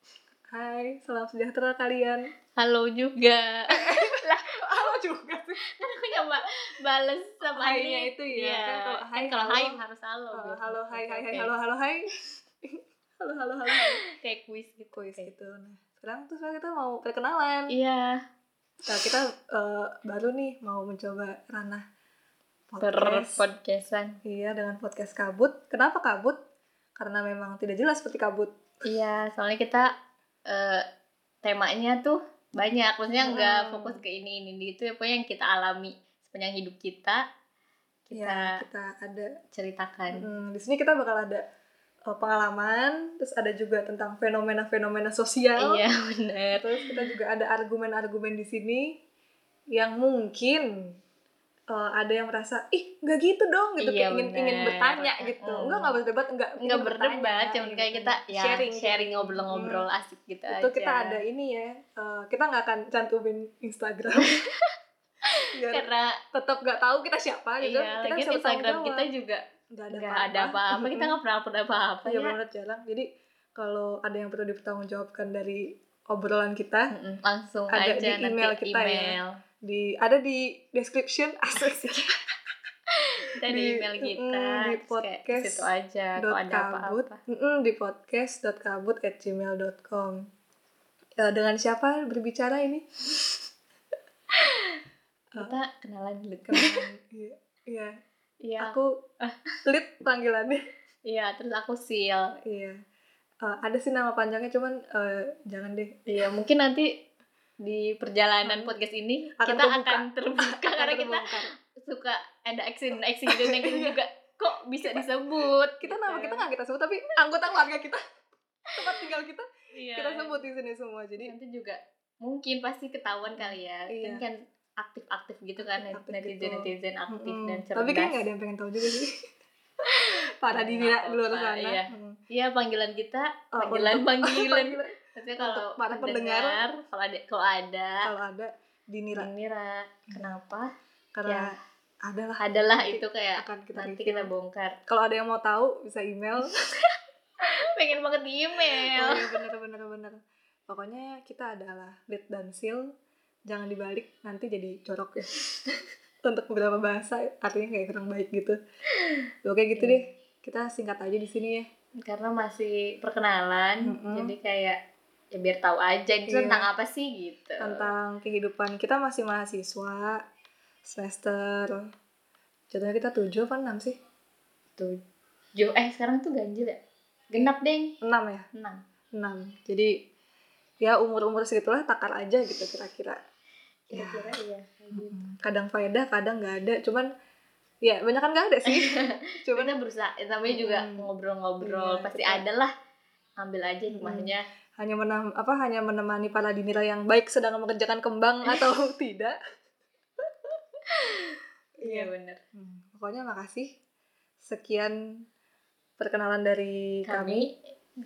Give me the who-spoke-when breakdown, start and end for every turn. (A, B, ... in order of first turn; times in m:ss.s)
0:00.5-0:02.2 A
0:02.6-0:04.4 B
0:03.7-0:06.3 A
0:05.8-0:11.5 B
0:07.5-0:09.8 A
0:10.3-0:12.1 A
0:12.7-0:14.0 A
0:13.8-0:15.3 B
0:14.9-0:17.7 A
0:17.7-0:18.2 B
0:18.9-0:21.8 A
0:22.7-0:23.4 A
0:22.8-0:24.2 B
0:24.2-0:26.4 A
0:27.0-0:28.5 A
0:28.8-0:29.9 B
0:30.5-0:30.8 B
0:31.4-0:37.2 B
0:33.2-0:34.0 A
0:38.1-0:38.6 B
0:38.1-0:39.3 A
0:39.5-0:40.3 B
0:40.1-0:41.4 A
0:42.1-0:45.8 A
0:45.6-0:47.1 B
0:46.6-0:48.9 A
0:49.7-0:50.9 A
0:51.7-0:59.8 A
0:53.8-0:56.0 B
0:56.6-1:01.2 B
1:00.5-1:04.4 A
1:04.2-1:04.5 B
1:05.5-1:09.1 A
1:05.6-1:06.2 B
1:07.6-1:12.3 B
1:09.8-1:11.2 A
1:12.0-1:16.9 A
1:16.9-1:19.3 B
1:17.7-1:22.1 A
1:23.3-1:27.2 B
1:23.5-1:30.3 A
1:31.2-1:32.9 A
1:34.4-1:34.8 B
1:35.4-1:36.8 B
1:36.5-1:37.9 A
1:38.4-1:39.4 B
1:38.6-1:38.9 A
1:39.6-1:40.6 A
1:41.1-1:42.3 B
1:42.5-1:42.8 A
1:43.4-1:46.0 A
1:46.1-1:46.9 B
1:47.6-1:51.3 B
1:48.4-1:48.8 A
1:49.4-1:51.5 A
1:51.8-1:56.4 B
1:53.3-1:54.0 A
1:55.8-1:58.0 A
1:58.8-2:01.3 A
1:59.8-2:00.4 B
2:01.2-2:08.2 B
2:03.3-2:04.2 A
2:05.6-2:09.1 A
2:10.0-2:12.2 A
2:10.5-2:18.1 B
2:13.6-2:16.6 A
2:18.0-2:19.3 A
2:19.1-2:20.7 B
2:21.2-2:21.5 A
2:21.3-2:21.6 B
2:22.1-2:24.3 A
2:22.4-2:24.8 B
2:24.9-2:26.6 A
2:27.7-2:29.4 B
2:28.9-2:32.9 A
2:33.5-2:35.7 A
2:36.3-2:38.6 A
2:39.4-2:41.7 A
2:39.8-2:40.0 B
2:42.0-2:44.8 B
2:43.8-2:44.3 A
2:45.3-2:47.9 B
2:46.3-2:46.7 A
2:47.6-2:50.2 A
2:50.8-2:51.9 A
2:52.7-2:54.0 A
2:55.6-2:56.8 B
2:57.3-2:57.9 B
2:58.0-2:58.5 A
2:58.6-2:58.8 B
2:59.1-2:59.9 A
3:00.8-3:03.2 A
3:03.9-3:05.2 B
3:03.9-3:04.4 A
3:04.9-3:07.1 A
3:07.8-3:09.7 A
3:08.7-3:12.7 B
3:10.5-3:11.1 A
3:11.6-3:12.4 A
3:13.4-3:14.4 B
3:13.9-3:19.4 A
3:20.9-3:22.4 B
3:21.8-3:23.7 A
3:24.4-3:25.0 A
3:26.0-3:27.5 A
3:27.1-3:27.6 B